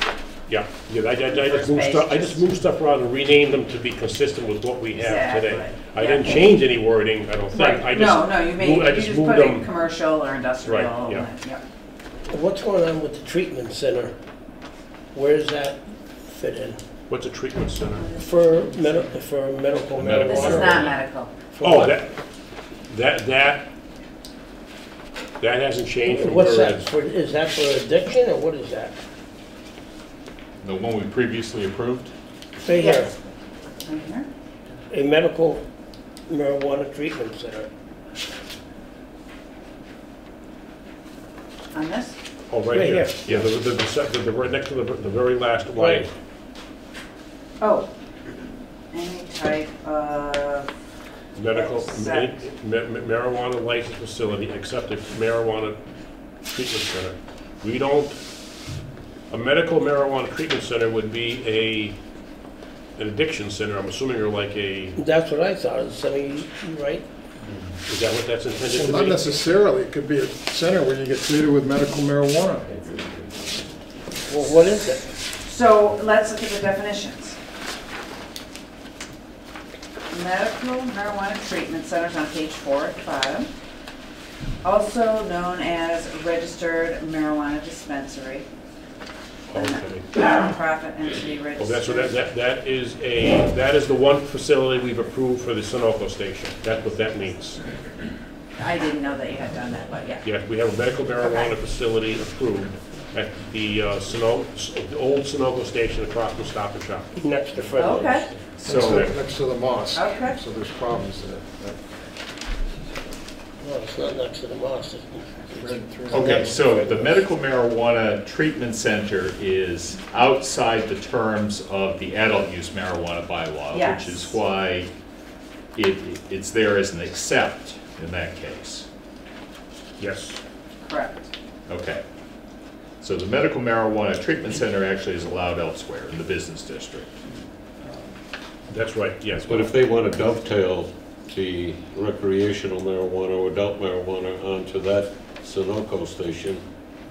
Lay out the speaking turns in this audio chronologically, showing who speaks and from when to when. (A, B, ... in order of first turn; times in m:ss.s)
0:00.5-0:09.7 A
0:01.3-0:02.4 B
0:05.0-0:06.5 B
0:07.5-0:11.6 B
0:10.6-0:11.3 A
0:12.3-0:14.2 C
0:15.1-0:16.8 C
0:17.1-0:18.1 A
0:18.0-0:19.1 B
0:18.2-0:20.8 C
0:20.0-0:21.0 A
0:20.2-0:21.3 B
0:21.5-0:22.0 C
0:21.6-0:22.2 A
0:22.9-0:23.7 A
0:25.4-0:26.9 A
0:26.1-0:29.0 C
0:30.6-0:32.1 D
0:32.6-0:33.1 C
0:32.7-0:33.1 B
0:33.8-0:34.3 B
0:34.9-0:35.6 C
0:36.3-0:37.7 C
0:41.7-0:42.2 B
0:42.5-0:46.1 A
0:42.7-0:43.2 C
0:45.8-0:46.0 C
0:47.6-0:47.9 B
0:48.9-0:50.7 B
0:51.4-0:55.8 A
0:51.5-0:52.4 B
0:56.5-0:58.2 A
0:59.3-1:02.0 A
1:03.0-1:05.0 A
1:05.0-1:07.0 C
1:07.9-1:09.4 A
1:08.6-1:13.0 E
1:14.3-1:15.1 C
1:15.4-1:17.4 B
1:20.1-1:23.5 B
1:24.6-1:28.5 B
1:29.5-1:30.1 A
1:29.5-1:32.2 B
1:31.6-1:37.6 A
1:38.6-1:40.2 B
1:40.2-1:47.1 A
1:41.2-1:41.5 B
1:47.2-1:48.5 C
1:47.8-1:48.3 B
1:48.6-1:49.1 D
1:48.6-1:51.8 E
1:48.8-1:49.1 A
1:49.9-1:50.4 B
1:53.6-1:55.8 C
1:55.5-1:57.2 E
1:56.1-2:04.9 D
2:03.7-2:04.4 B
2:05.8-2:08.9 D
2:10.0-2:10.4 A
2:10.8-2:11.3 B
2:11.7-2:12.0 D
2:13.0-2:17.2 D
2:17.8-2:18.1 D
2:18.7-2:19.7 A
2:19.4-2:26.6 F